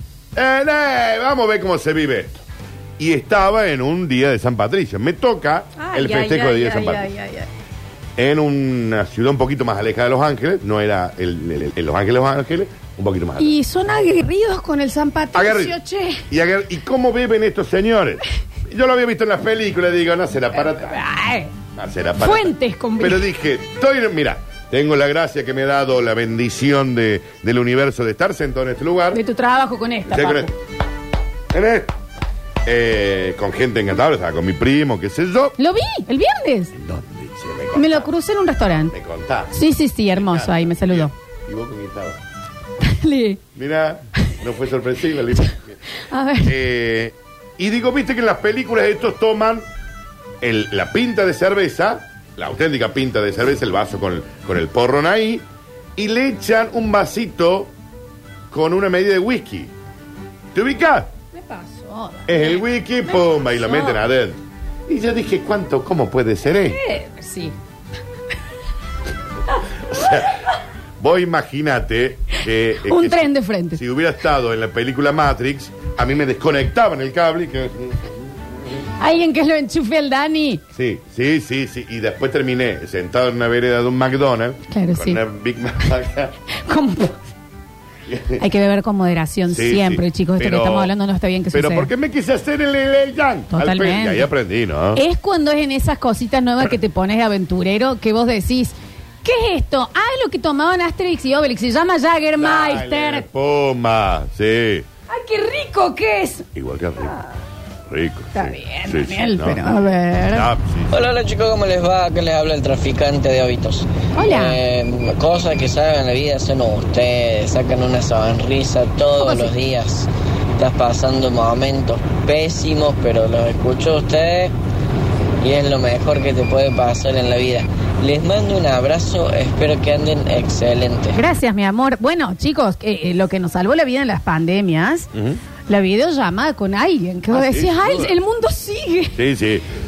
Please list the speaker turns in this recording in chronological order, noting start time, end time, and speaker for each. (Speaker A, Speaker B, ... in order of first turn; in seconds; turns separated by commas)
Speaker A: 0.3-2.4, Speaker A: 3.0-7.1, Speaker B: 5.8-7.5, Speaker A: 8.2-13.5, Speaker B: 13.4-16.2, Speaker A: 15.3-15.7, Speaker A: 16.3-21.0, Speaker B: 20.5-21.5, Speaker A: 21.8-29.2, Speaker B: 22.2-23.2, Speaker B: 29.1-30.5, Speaker A: 30.1-30.5, Speaker A: 31.5-31.9, Speaker A: 32.6-35.5, Speaker B: 35.6-36.7, Speaker A: 36.8-38.1, Speaker B: 37.7-38.9, Speaker A: 38.9-39.5, Speaker B: 39.5-41.1, Speaker A: 40.1-42.2, Speaker B: 42.8-43.4, Speaker A: 43.5-45.7, Speaker B: 46.1-46.5, Speaker A: 46.4-49.6, Speaker A: 50.4-55.4, Speaker A: 56.0-57.7, Speaker A: 58.5-59.7, Speaker A: 60.5-61.1, Speaker B: 61.3-64.0, Speaker A: 62.3-66.8, Speaker B: 66.7-67.5, Speaker A: 69.9-70.3, Speaker A: 71.0-78.2, Speaker B: 72.8-73.8, Speaker B: 79.0-80.6, Speaker A: 80.8-86.3, Speaker B: 84.7-85.2, Speaker B: 86.6-87.2, Speaker A: 88.1-88.4, Speaker B: 88.4-91.9, Speaker A: 89.5-90.9, Speaker A: 91.5-95.0, Speaker B: 93.5-94.3, Speaker B: 94.9-103.2, Speaker A: 102.4-104.8, Speaker B: 105.1-106.5, Speaker A: 106.5-107.1, Speaker A: 107.9-109.6, Speaker B: 108.3-110.5, Speaker A: 110.3-111.0, Speaker C: 110.9-124.5, Speaker B: 114.2-114.6, Speaker B: 119.2-119.5, Speaker C: 125.4-131.2, Speaker B: 131.1-135.1, Speaker A: 135.1-135.4, Speaker B: 135.7-139.2, Speaker A: 137.3-138.2, Speaker A: 139.1-139.6